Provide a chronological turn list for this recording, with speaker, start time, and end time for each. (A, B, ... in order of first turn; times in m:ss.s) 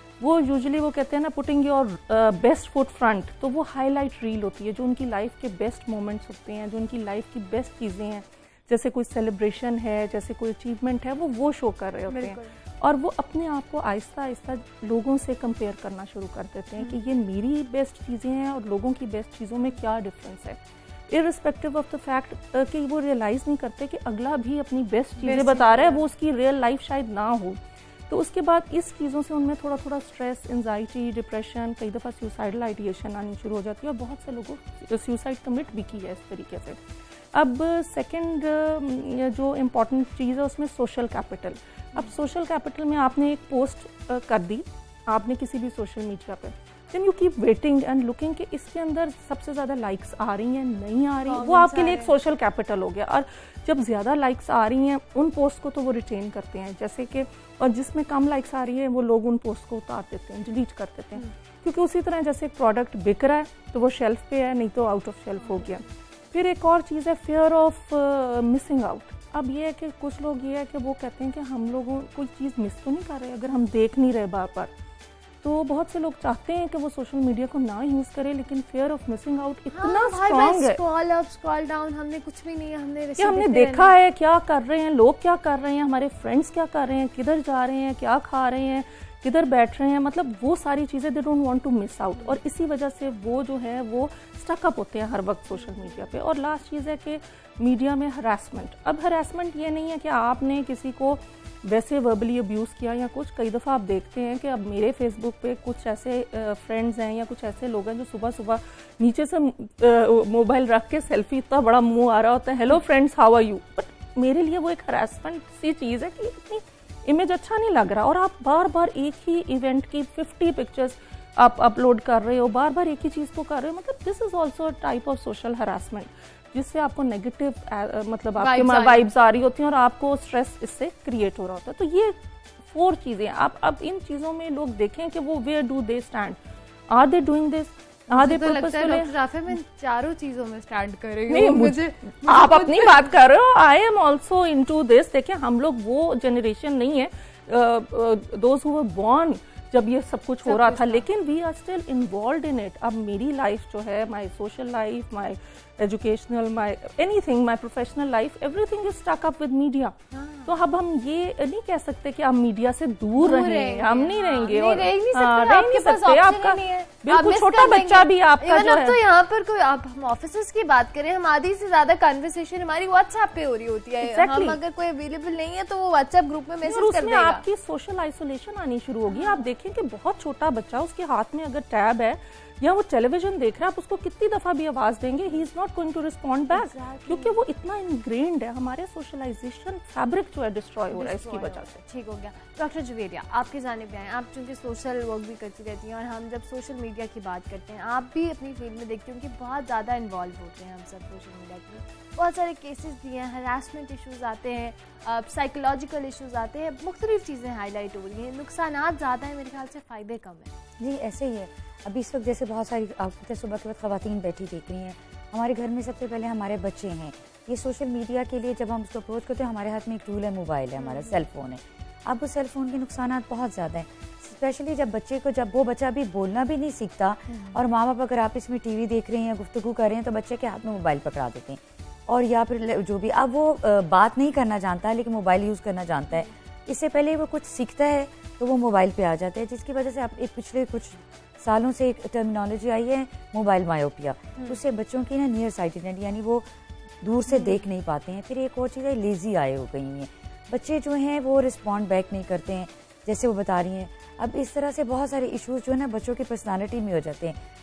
0:00.2-0:20.6 A
0:12.1-0:12.5 B
0:21.1-0:27.6 A
0:25.2-0:26.0 B
0:28.1-0:36.8 A
0:37.3-1:14.7 A
0:51.3-0:52.1 B
1:05.4-1:05.8 B
1:15.4-1:20.8 A
1:19.7-1:24.0 B
1:23.2-2:19.1 A
1:35.5-1:36.1 B
2:08.4-2:09.0 B
2:18.1-2:23.1 B
2:21.3-2:49.0 A
2:30.4-2:31.1 B
2:40.1-2:40.5 B
2:43.2-2:57.4 B
2:54.0-2:54.6 A
2:56.6-3:11.8 A
2:59.1-2:59.5 B
3:06.5-3:07.4 B
3:10.9-3:30.5 B
3:30.8-4:06.5 C
3:40.8-3:41.2 B
3:47.3-3:47.6 B
4:07.0-4:17.4 C
4:07.3-4:07.6 B